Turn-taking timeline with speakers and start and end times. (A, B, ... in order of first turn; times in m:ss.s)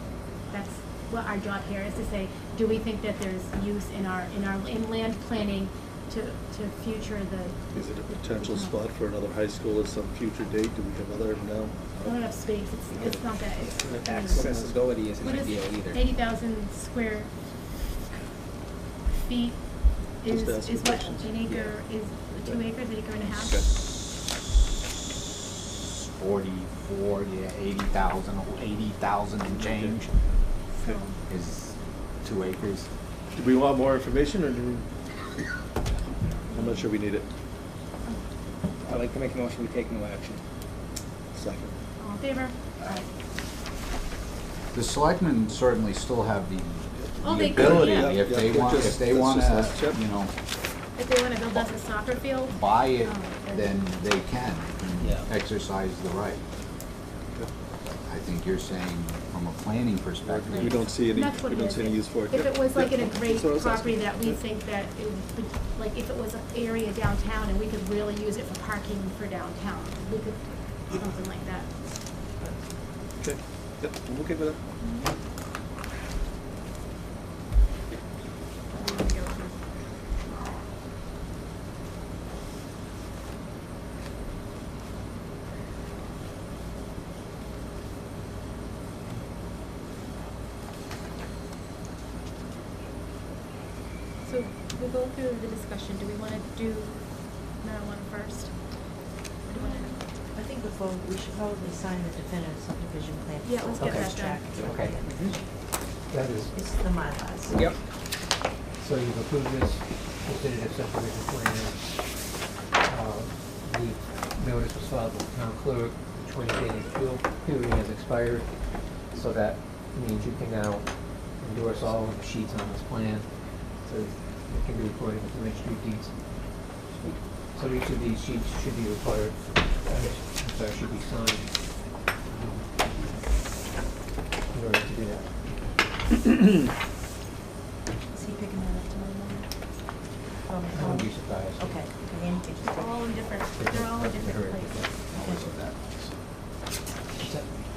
0:00.5-0:07.7 A
0:07.7-0:12.0 B
0:08.3-0:08.8 A
0:12.0-0:14.5 A
0:13.8-0:16.0 C
0:14.2-0:14.8 B
0:15.2-0:17.3 A
0:19.1-0:19.6 A
0:20.2-0:23.6 A
0:20.2-0:21.6 B
0:23.3-0:23.6 B
0:25.8-0:30.1 D
0:29.6-0:30.0 B
0:30.8-0:31.2 A
0:31.3-0:32.9 D
0:33.3-0:34.9 B
0:36.5-0:36.8 A
0:36.5-0:37.3 B
0:38.8-0:40.4 C
0:41.3-0:41.8 B
0:42.0-0:43.1 A
0:44.7-0:50.3 D
0:47.2-0:48.2 A
0:47.5-0:50.0 B
0:51.0-0:53.7 A
0:52.5-0:56.5 D
0:58.0-1:00.9 D
1:00.2-1:04.4 B
1:00.5-1:11.7 A
1:13.2-1:14.6 B
1:14.8-1:15.1 A
1:18.7-1:19.6 A
1:34.2-1:37.0 A
1:37.6-1:38.5 A
1:39.5-1:40.0 A
1:39.5-1:45.5 E
1:43.4-1:44.7 A
1:43.8-1:44.0 F
1:44.6-1:45.0 F
1:46.0-1:46.5 F
1:46.5-1:47.6 E
1:48.8-1:51.8 F
1:52.8-1:58.5 F
1:59.1-2:03.3 F
2:03.8-2:06.1 F
2:07.0-2:11.7 F
2:12.2-2:13.3 F
2:14.5-2:15.5 F
2:18.1-2:19.5 E
2:20.4-2:23.2 E
2:20.7-2:21.8 F
2:22.6-2:24.9 A
2:23.5-2:25.2 F
2:25.1-2:26.1 D
2:27.2-2:27.5 F